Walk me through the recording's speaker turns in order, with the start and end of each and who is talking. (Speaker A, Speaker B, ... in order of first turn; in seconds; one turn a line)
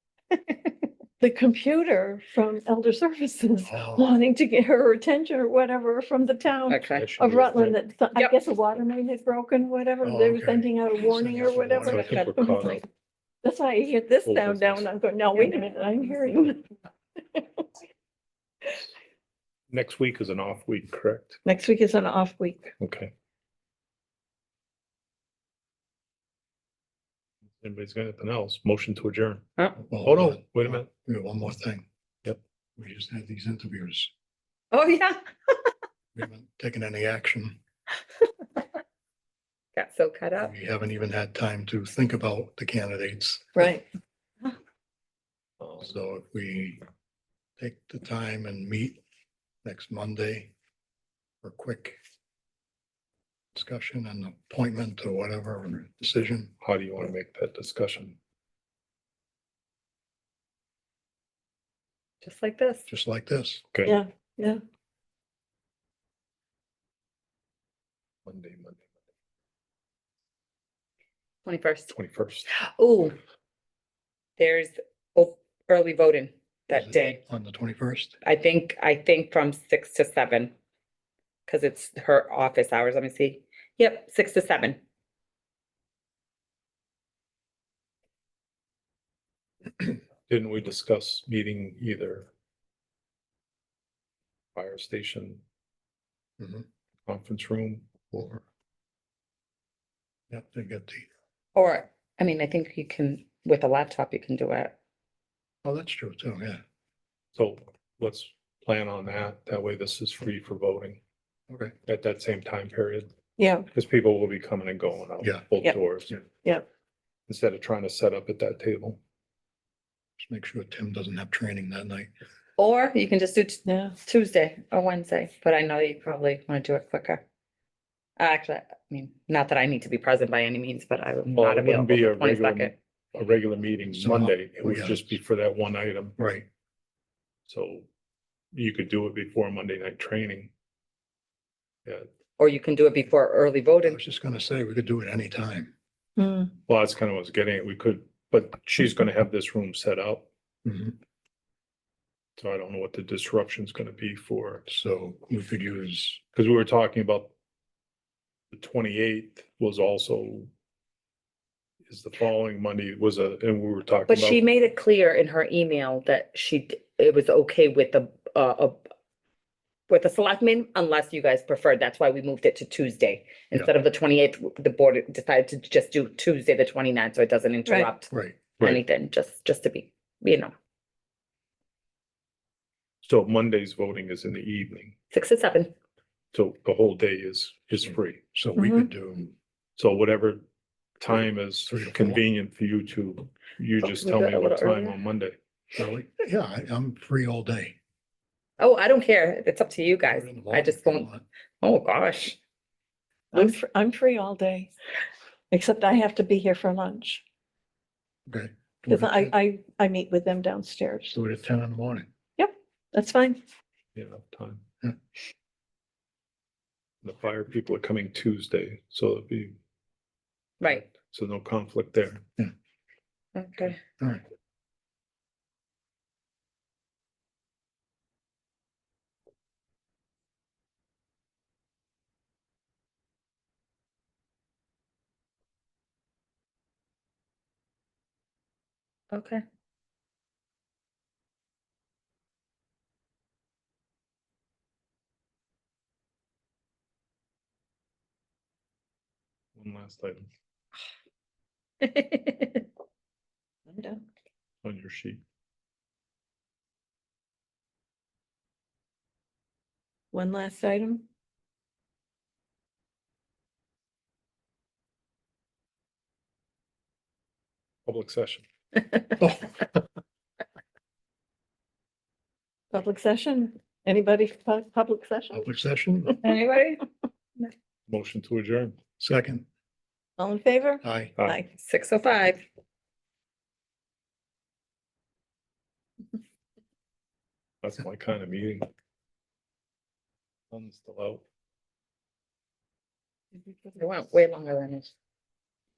Speaker A: 1.2-12.8
Speaker B: 3.6-4.2
Speaker C: 6.7-7.1
Speaker D: 6.9-7.8
Speaker B: 10.0-12.2
Speaker D: 11.8-12.8
Speaker C: 11.9-12.4
Speaker A: 13.4-16.7
Speaker D: 14.2-14.9
Speaker A: 17.3-17.6
Speaker D: 19.7-21.4
Speaker A: 21.4-22.7
Speaker D: 22.8-23.1
Speaker D: 27.6-29.5
Speaker B: 29.9-31.8
Speaker D: 30.0-30.9
Speaker B: 32.8-34.1
Speaker C: 34.7-35.6
Speaker B: 36.1-37.6
Speaker C: 39.8-40.5
Speaker B: 40.4-43.7
Speaker A: 43.5-43.8
Speaker D: 45.6-45.9
Speaker B: 45.8-46.8
Speaker B: 47.6-49.0
Speaker B: 49.6-50.5
Speaker B: 51.4-52.0
Speaker B: 53.5-56.5
Speaker D: 56.6-58.2
Speaker C: 62.2-62.9
Speaker B: 62.9-63.6
Speaker A: 63.8-64.6
Speaker D: 68.2-68.8
Speaker C: 71.4-71.9
Speaker D: 71.9-72.5
Speaker C: 72.5-73.2
Speaker C: 74.4-77.2
Speaker B: 76.7-78.2
Speaker C: 78.2-80.5
Speaker C: 81.5-84.8
Speaker D: 90.3-92.3
Speaker D: 94.5-95.4
Speaker B: 96.4-96.7
Speaker D: 97.0-97.9
Speaker B: 98.1-98.4
Speaker B: 100.3-101.1
Speaker C: 101.5-104.7
Speaker B: 105.6-106.6
Speaker D: 107.3-111.0
Speaker B: 111.5-111.7
Speaker D: 111.8-113.1
Speaker A: 113.4-113.7
Speaker D: 113.7-116.2
Speaker B: 115.2-115.5
Speaker D: 117.3-119.0
Speaker B: 120.2-122.1
Speaker C: 122.6-127.2
Speaker A: 123.7-123.9
Speaker C: 128.2-132.7
Speaker D: 131.3-136.2
Speaker B: 133.9-135.1
Speaker B: 136.2-136.4
Speaker D: 137.5-137.9
Speaker D: 138.5-140.5
Speaker C: 142.4-144.0
Speaker B: 143.8-145.7
Speaker A: 146.2-146.5
Speaker D: 146.7-150.3
Speaker B: 150.6-150.9
Speaker D: 152.4-154.6
Speaker B: 154.7-156.2
Speaker D: 156.3-157.3
Speaker D: 158.5-160.5
Speaker D: 161.8-164.4
Speaker C: 164.1-168.9
Speaker C: 169.9-180.5
Speaker B: 178.1-178.4
Speaker D: 183.0-184.9
Speaker C: 185.1-185.7
Speaker D: 186.3-188.2
Speaker B: 188.3-189.3
Speaker A: 188.6-188.9
Speaker D: 189.8-190.4
Speaker D: 191.0-195.3
Speaker B: 191.7-192.2
Speaker C: 193.8-194.9
Speaker B: 195.7-197.7
Speaker C: 198.6-201.1
Speaker B: 200.1-201.2
Speaker C: 201.6-202.4
Speaker A: 203.3-204.7
Speaker A: 205.5-207.2
Speaker B: 208.3-209.3
Speaker A: 208.9-211.1
Speaker B: 211.1-212.1
Speaker A: 212.4-213.4
Speaker D: 213.9-214.6
Speaker D: 217.0-219.6
Speaker D: 220.7-222.2
Speaker C: 223.3-223.8
Speaker B: 224.0-224.2
Speaker C: 239.1-239.4
Speaker D: 249.6-250.3
Speaker C: 251.8-252.6
Speaker A: 253.7-254.0
Speaker D: 254.6-255.2
Speaker A: 260.1-261.0
Speaker D: 267.8-268.4
Speaker B: 269.2-269.7
Speaker A: 272.7-275.4
Speaker B: 275.3-276.1
Speaker C: 276.2-276.8
Speaker D: 277.9-278.8
Speaker B: 279.0-279.4
Speaker A: 280.2-281.5
Speaker B: 280.8-281.1
Speaker C: 281.6-282.4
Speaker D: 287.6-288.7
Speaker D: 290.5-291.2
Speaker C: 293.4-294.9